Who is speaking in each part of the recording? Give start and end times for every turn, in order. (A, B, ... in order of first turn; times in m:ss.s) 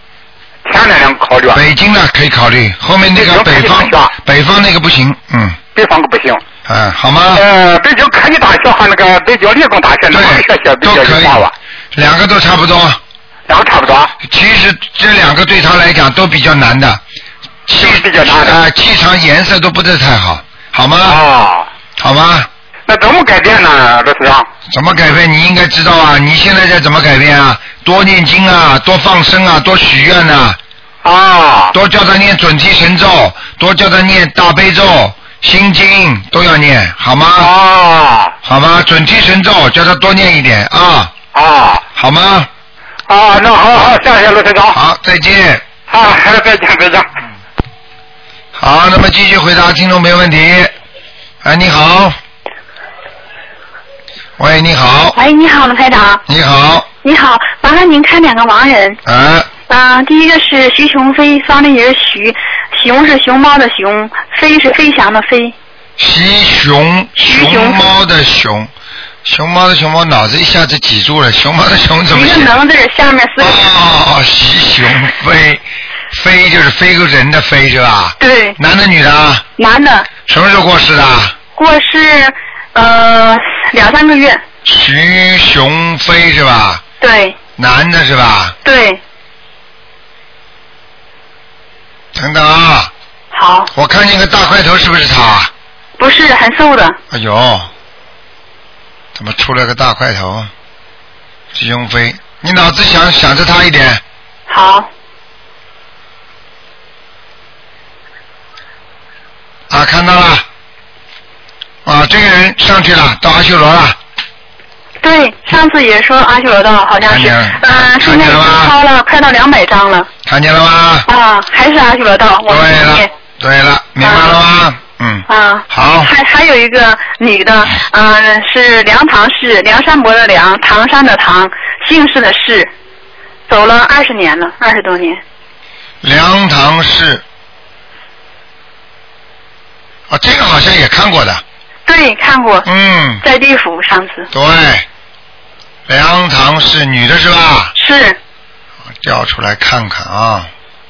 0:00.7-0:01.6 A
0:01.5-0:05.6 B
0:03.1-0:04.1 A
0:05.8-0:06.4 A
0:06.7-0:07.4 B
0:07.3-0:11.5 A
0:10.1-0:11.4 B
0:11.9-0:13.0 B
0:13.5-0:14.1 A
0:14.2-0:17.0 B
0:17.7-0:21.2 B
0:17.8-0:18.6 A
0:21.0-0:21.7 A
0:22.0-0:22.5 B
0:22.9-0:24.5 A
0:24.7-0:30.6 B
0:31.0-0:31.8 A
0:31.7-0:37.5 B
0:37.4-0:38.4 A
0:38.4-0:41.1 B
0:41.3-0:41.8 A
0:42.0-0:42.5 B
0:43.1-0:44.8 A
0:44.7-0:45.6 B
0:45.9-0:47.1 A
0:48.6-0:50.7 B
0:51.4-0:52.2 B
0:54.4-0:55.2 B
0:55.1-0:56.2 C
0:56.3-0:56.9 B
0:57.0-0:59.0 C
0:59.0-0:59.5 B
0:59.7-1:05.6 C
1:06.0-1:08.7 B
1:07.2-1:07.8 C
1:09.2-1:12.6 B
1:12.1-1:13.7 C
1:13.4-1:19.4 B
1:18.2-1:18.6 C
1:19.6-1:20.1 C
1:20.3-1:21.4 B
1:21.6-1:24.4 C
1:24.6-1:26.8 B
1:27.0-1:27.4 C
1:27.6-1:28.6 B
1:28.6-1:29.0 C
1:32.1-1:32.9 B
1:33.3-1:33.7 C
1:33.7-1:35.5 B
1:36.0-1:37.0 C
1:37.1-1:37.7 B
1:39.1-1:40.5 B
1:41.5-1:44.0 B
1:44.5-1:44.9 C
1:49.7-1:50.4 B
1:51.8-1:54.0 B
1:55.0-2:00.1 C
1:57.0-1:58.8 B
2:00.2-2:01.1 B
2:01.1-2:03.1 C
2:02.5-2:06.1 B
2:04.0-2:04.4 C
2:05.3-2:12.7 C
2:13.5-2:15.2 C
2:16.0-2:17.2 B
2:20.1-2:21.4 B
2:21.9-2:22.7 C
2:22.6-2:23.2 B
2:23.2-2:24.3 C
2:24.3-2:24.9 B
2:25.9-2:27.7 B
2:27.8-2:28.2 C
2:29.0-2:30.5 B